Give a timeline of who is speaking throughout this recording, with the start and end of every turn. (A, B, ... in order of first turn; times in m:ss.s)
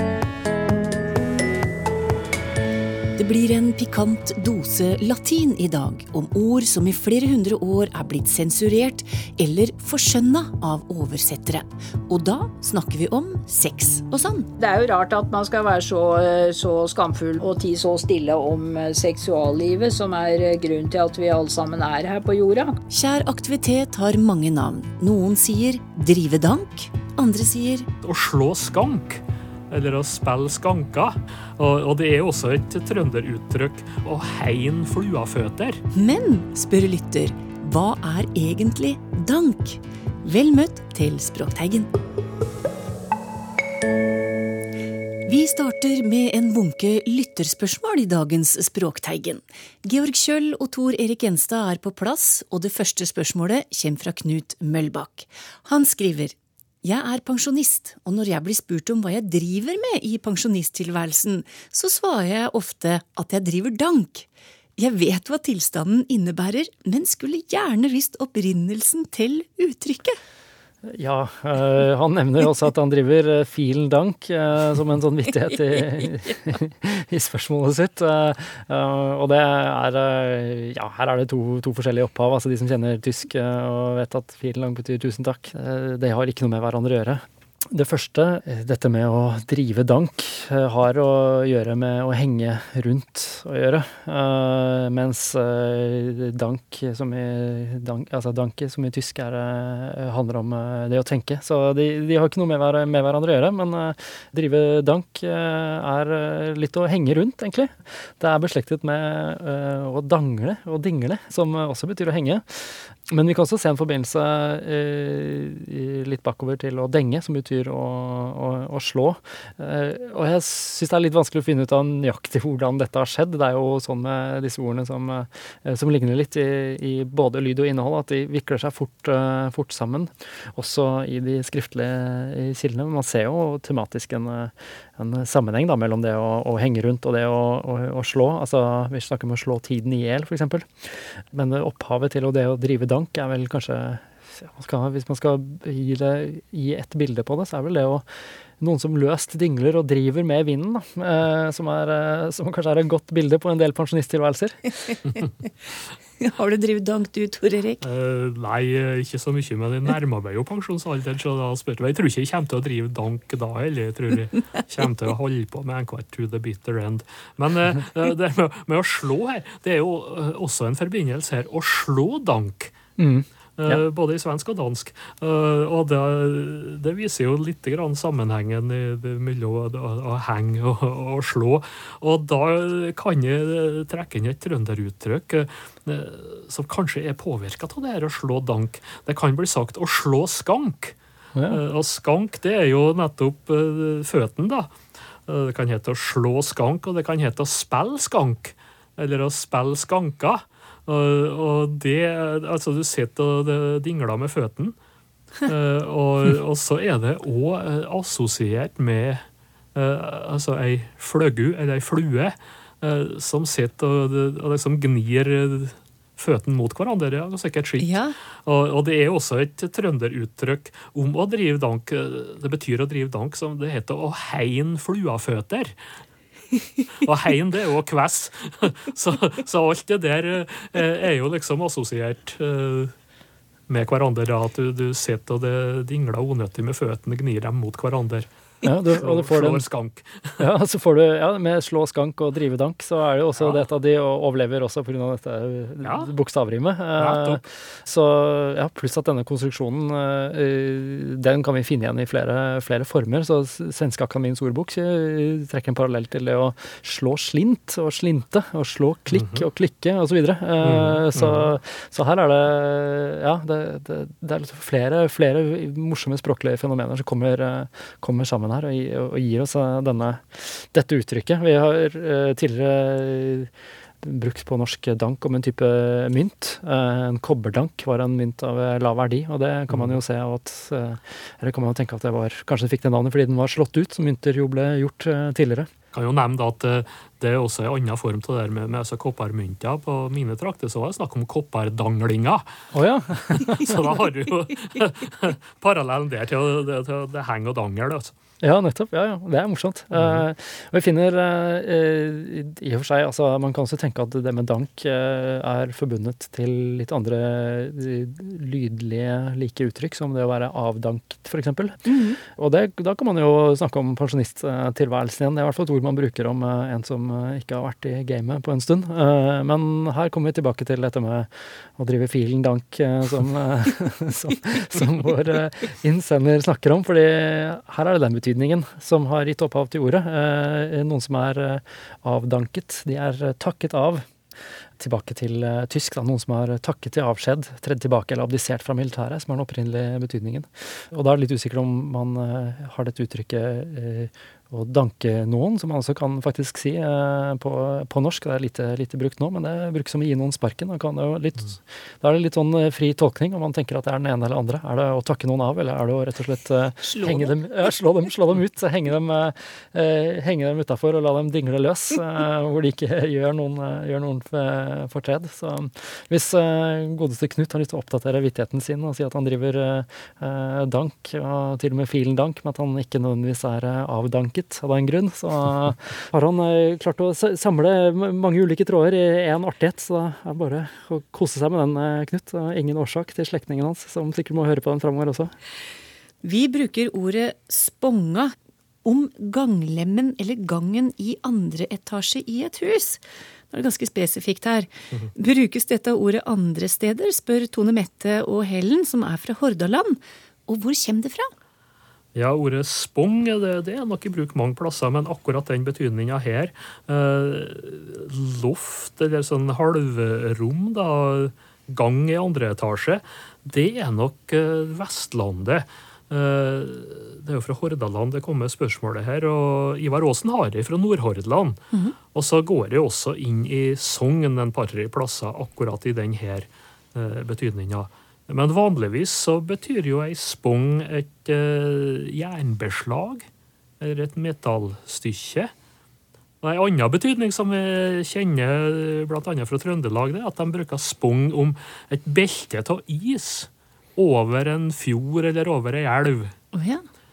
0:03.2-0:14.5 A
0:14.6-0:22.8 B
0:22.9-0:27.9 A
0:28.0-0:35.8 C
0:35.9-0:41.9 A
0:45.3-1:10.2 A
1:10.9-2:28.1 D
2:28.6-2:34.6 D
2:36.2-2:37.8 A
2:37.8-2:52.7 C
2:53.0-2:53.8 D
2:53.6-3:11.0 C
3:11.4-3:11.6 D
3:11.5-3:14.7 C
3:15.3-3:24.8 C
3:25.4-3:29.2 C
3:29.8-3:45.7 C
3:37.8-3:38.2 A
3:47.0-3:52.9 C
3:53.7-3:58.3 C
3:58.6-3:59.6 D
3:59.0-4:00.4 C
4:00.4-4:33.5 D
4:05.8-4:06.1 C
4:07.0-4:07.4 C
4:19.1-4:19.4 C
4:20.6-4:21.5 C
4:34.0-4:45.7 D
4:39.7-4:40.0 C
4:45.9-4:52.4 C
4:52.7-4:53.9 D
4:53.3-4:58.1 C
4:58.4-5:34.1 D
5:00.0-5:00.2 C
5:11.9-5:12.2 A
5:34.8-6:25.3 D
5:56.8-5:57.3 A
6:26.2-6:41.3 A
6:42.2-7:01.6 C
7:02.1-7:13.3 C
7:13.8-7:15.5 C
7:16.4-7:26.4 C
7:26.5-7:26.8 A